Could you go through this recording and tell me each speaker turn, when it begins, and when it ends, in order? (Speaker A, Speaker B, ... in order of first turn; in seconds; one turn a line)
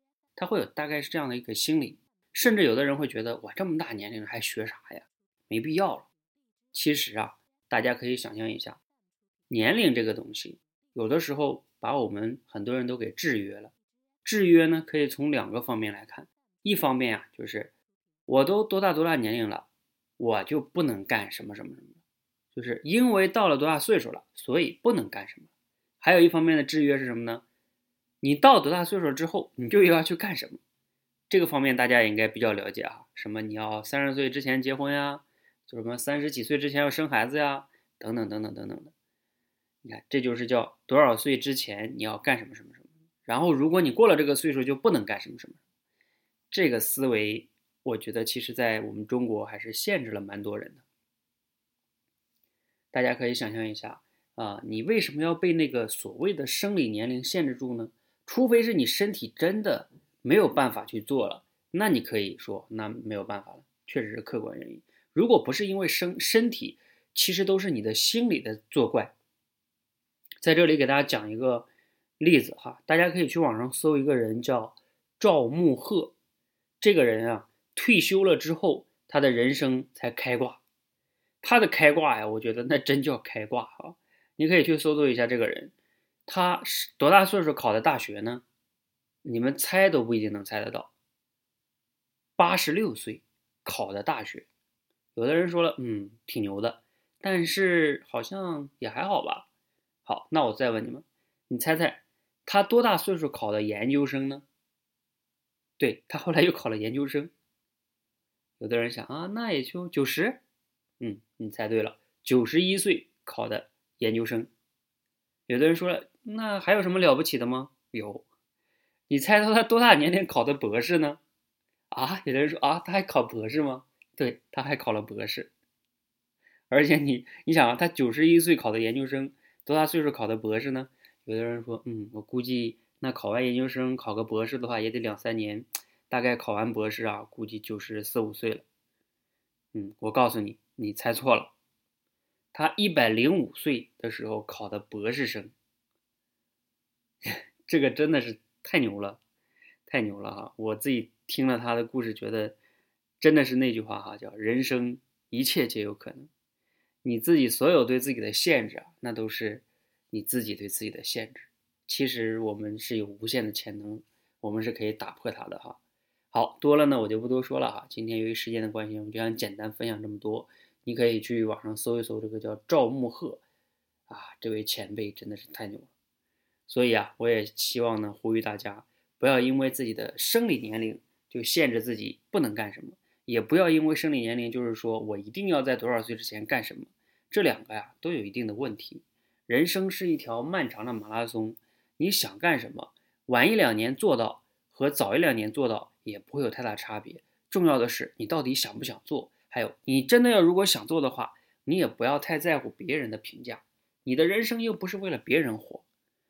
Speaker A: 0.3-6.1
Speaker A: 6.7-8.8
Speaker A: 9.5-13.7
Speaker A: 14.2-17.7
Speaker A: 18.3-19.7
Speaker A: 20.2-22.0
Speaker A: 22.5-25.5
Speaker A: 26.0-27.4
Speaker A: 28.2-30.6
Speaker A: 31.3-38.9
Speaker A: 39.8-45.6
Speaker A: 46.5-50.8
Speaker A: 52.9-69.1
Speaker A: 70.4-71.7
Speaker A: 72.2-76.1
Speaker A: 76.8-80.6
Speaker A: 81.4-85.7
Speaker A: 86.2-88.4
Speaker A: 89.2-90.9
Speaker A: 92.4-94.5
Speaker A: 95.1-99.5
Speaker A: 100.0-104.5
Speaker A: 105.8-107.3
Speaker A: 108.6-110.4
Speaker A: 111.0-114.5
Speaker A: 115.5-118.2
Speaker A: 119.1-121.2
Speaker A: 121.9-125.5
Speaker A: 126.7-138.6
Speaker A: 139.7-141.5
Speaker A: 142.5-145.5
Speaker A: 147.2-149.2
Speaker A: 149.8-152.6
Speaker A: 153.2-156.3
Speaker A: 157.0-165.8
Speaker A: 166.3-173.4
Speaker A: 174.1-175.9
Speaker A: 176.7-205.8